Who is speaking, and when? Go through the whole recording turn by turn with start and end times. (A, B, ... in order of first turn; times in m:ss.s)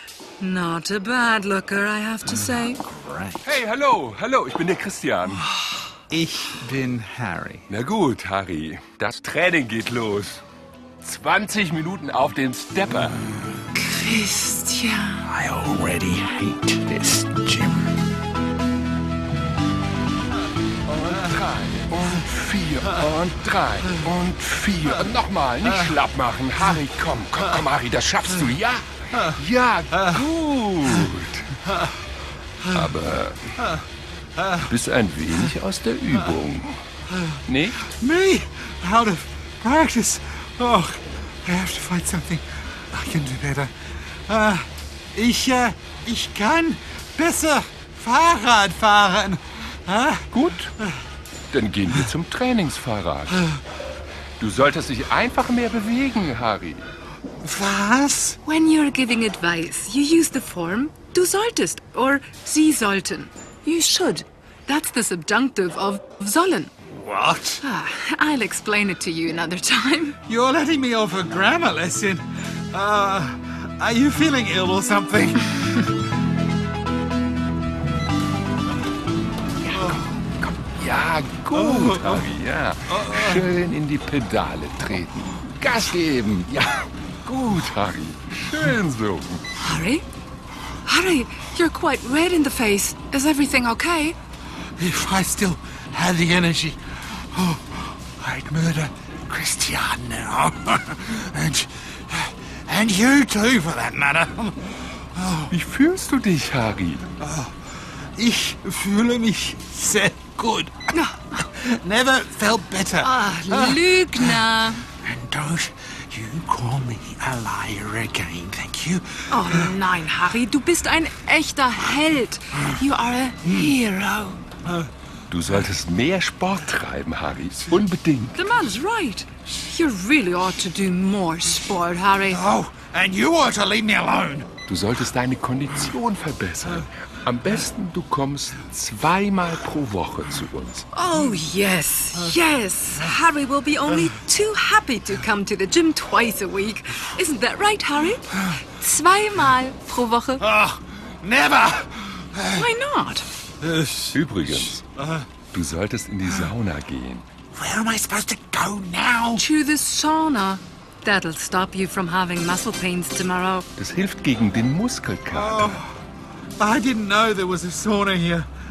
0:00.4-0:02.8 A
0:02.4-0:03.6 B
0:03.4-0:05.5 C
0:06.1-0:07.7 B
0:07.7-0:10.4 C
0:11.0-0:13.2 C
0:13.8-0:15.2 A
0:15.2-0:17.9 B
0:20.9-0:31.6 C
0:32.7-0:33.4 C
0:34.6-0:36.8 C
0:37.5-0:37.8 C
0:37.8-0:43.7 B
0:44.3-0:50.3 B
0:50.3-0:50.7 C
0:51.5-0:53.4 C
0:53.3-0:53.6 B
0:54.4-0:56.8 C
0:57.4-0:58.4 B
0:58.4-1:06.7 A
1:07.0-1:07.6 B
1:07.6-1:10.2 A
1:10.2-1:15.9 B
1:20.8-1:29.4 C
1:21.6-1:22.2 B
1:23.0-1:23.4 B
1:29.6-1:30.0 A
1:30.8-1:34.2 A
1:34.8-1:45.5 B
1:45.5-1:47.0 C
1:47.2-1:47.5 B
1:48.2-1:50.8 B
1:50.9-1:51.3 A
1:51.4-1:59.7 B
1:53.0-1:54.9 A
1:59.3-2:04.4 A
2:03.4-2:03.7 B
2:05.3-2:08.4 C
2:08.3-2:12.4 A
2:12.3-2:14.5 B
2:14.7-2:20.8 C
2:20.9-2:30.4 A
2:30.4-2:32.7 B
2:32.5-2:33.3 A
2:33.6-2:35.3 B
2:34.1-2:34.8 C
2:35.5-2:37.2 C
2:37.5-2:39.4 B
2:39.4-2:43.7 A
2:43.8-2:45.8 C
2:45.3-2:45.9 B
2:46.6-2:48.5 B